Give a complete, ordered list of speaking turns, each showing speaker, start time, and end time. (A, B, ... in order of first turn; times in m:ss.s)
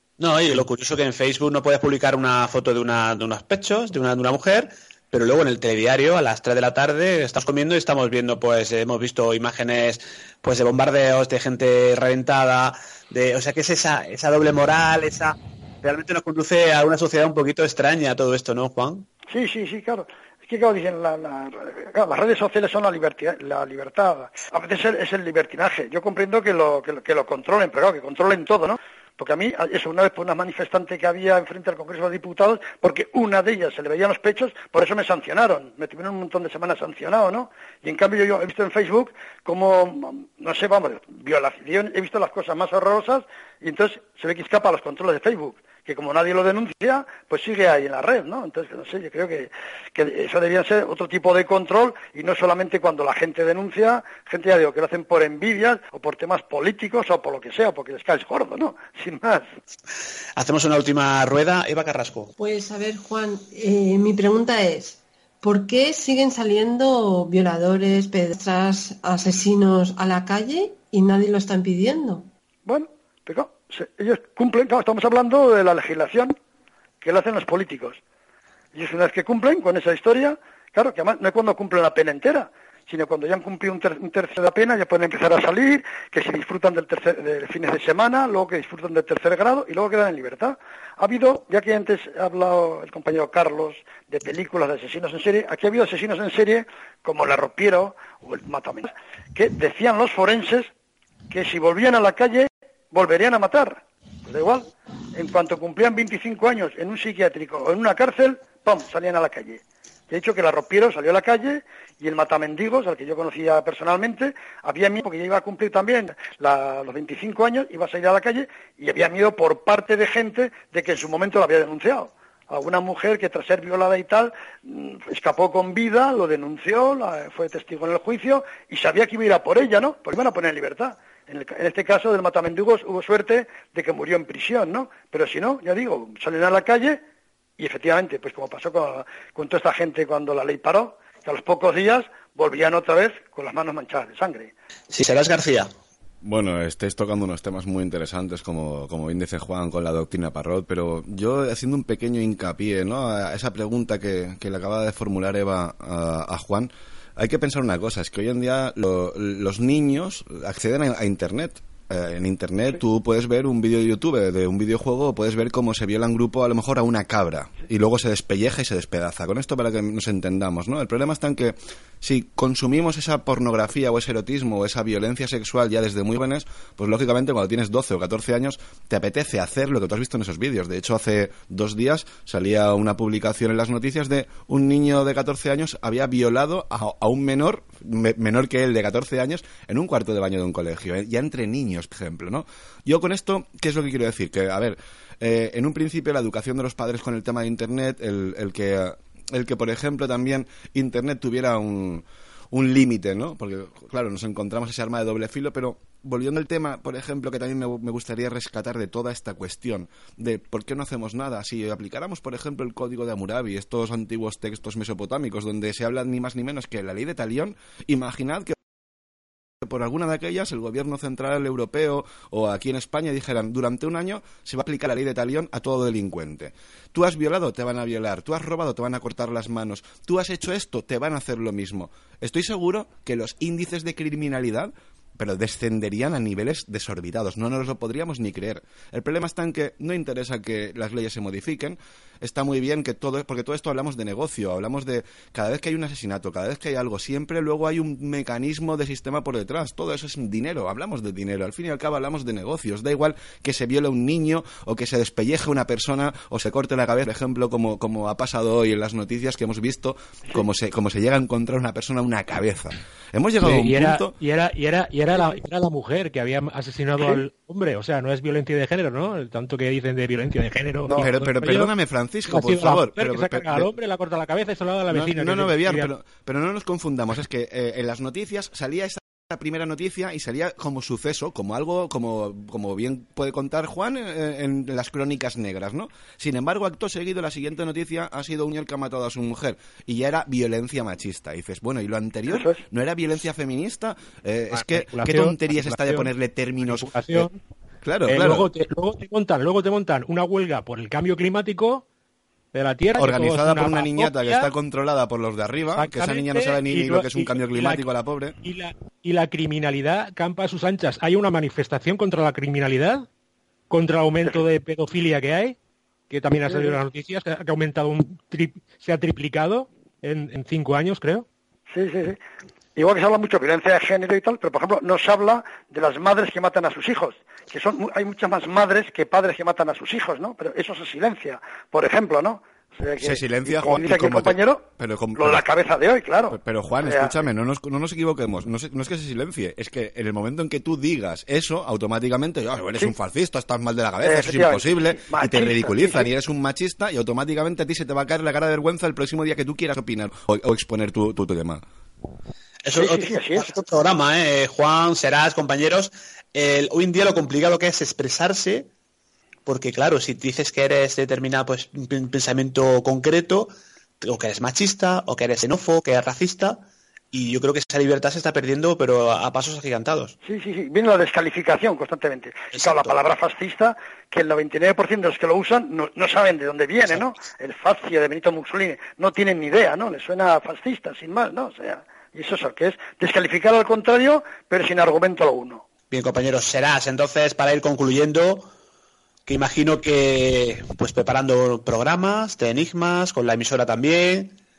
0:00.2-0:19.1 A
0:19.3-0:59.5 B
1:00.4-1:02.3 A
1:02.4-1:12.3 C
1:12.7-1:16.4 B
1:17.0-1:18.0 B
1:18.7-1:40.7 B
1:41.3-2:17.0 B
2:17.6-2:24.5 B
2:24.9-2:25.7 A
2:26.2-3:38.6 D
3:39.6-4:24.2 D
4:23.4-4:31.7 E
4:30.9-4:33.7 D
4:32.3-4:35.9 E
4:34.9-4:57.3 D
4:52.3-4:52.6 B
4:54.5-4:56.1 E
4:56.6-4:57.4 E
4:57.8-4:58.5 D
4:58.1-5:01.8 E
5:02.5-5:04.5 E
5:03.0-5:08.4 D
5:05.8-5:07.9 E
5:08.4-5:13.1 E
5:13.7-5:15.6 E
5:16.1-5:21.3 E
5:16.5-5:16.8 B
5:21.7-5:22.2 B
5:22.8-5:34.6 B
5:33.0-5:35.4 D
5:35.2-5:37.2 B
5:36.3-5:51.6 D
5:44.0-5:46.1 B
5:52.6-5:58.7 A
5:52.7-5:53.6 B
5:59.5-6:10.2 A
6:10.2-6:25.6 B
6:12.5-6:12.9 A
6:25.9-6:28.5 A
6:29.3-6:34.4 A